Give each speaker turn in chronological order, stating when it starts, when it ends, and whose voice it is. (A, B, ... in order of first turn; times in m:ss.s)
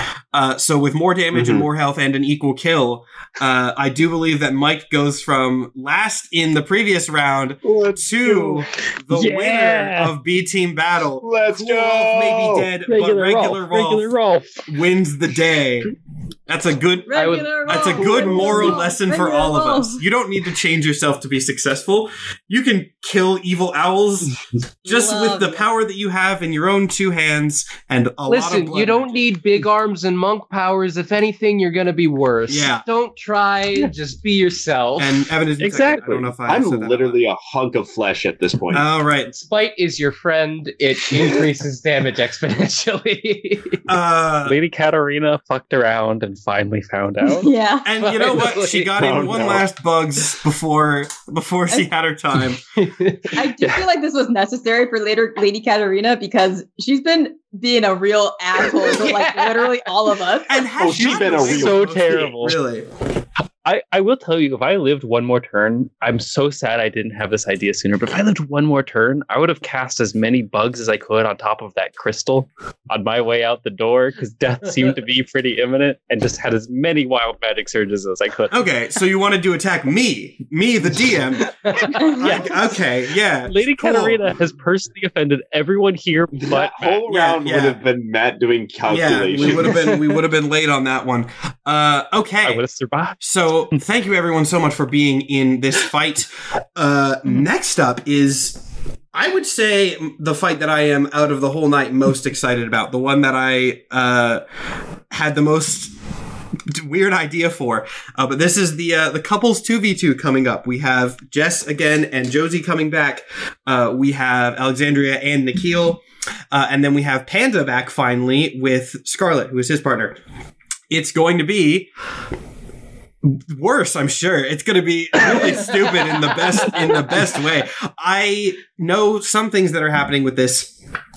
0:00.3-0:14.1 A
0:01.3-0:01.7 B
0:07.6-0:08.7 B
0:09.1-0:10.1 C
0:11.2-0:12.7 B
0:12.8-0:14.7 C
0:14.7-0:15.9 A
0:16.5-0:29.2 A
0:17.1-0:20.0 D
0:17.2-0:18.0 E
0:18.0-0:18.8 B
0:24.9-0:25.6 D
0:28.3-0:35.1 E
0:32.5-0:32.8 A
0:35.0-0:37.2 A
0:35.6-0:36.4 C
0:36.5-0:38.8 B
0:38.7-0:39.3 A
0:39.3-0:43.8 E
0:43.9-0:44.6 A
0:44.4-0:47.5 C
0:47.2-0:47.9 D
0:47.8-0:52.6 A
0:48.0-0:48.9 E
0:49.0-0:49.7 B
0:52.8-0:53.4 E
0:53.3-1:00.7 D
0:53.6-0:53.8 C
0:58.6-1:00.0 E
1:00.5-1:02.9 A
1:00.8-1:02.0 B
1:01.0-1:02.6 C
1:03.6-1:18.6 C
1:18.5-1:24.2 A
1:21.6-1:22.8 C
1:23.4-1:27.0 C
1:26.3-1:29.8 B
1:27.1-1:27.8 A
1:28.9-1:32.6 A
1:29.8-1:30.1 E
1:32.4-1:33.2 C
1:33.2-1:38.6 A
1:39.1-1:44.4 A
1:45.1-1:45.9 A
1:46.7-2:00.2 A
2:00.9-2:01.9 A
2:03.2-2:10.7 A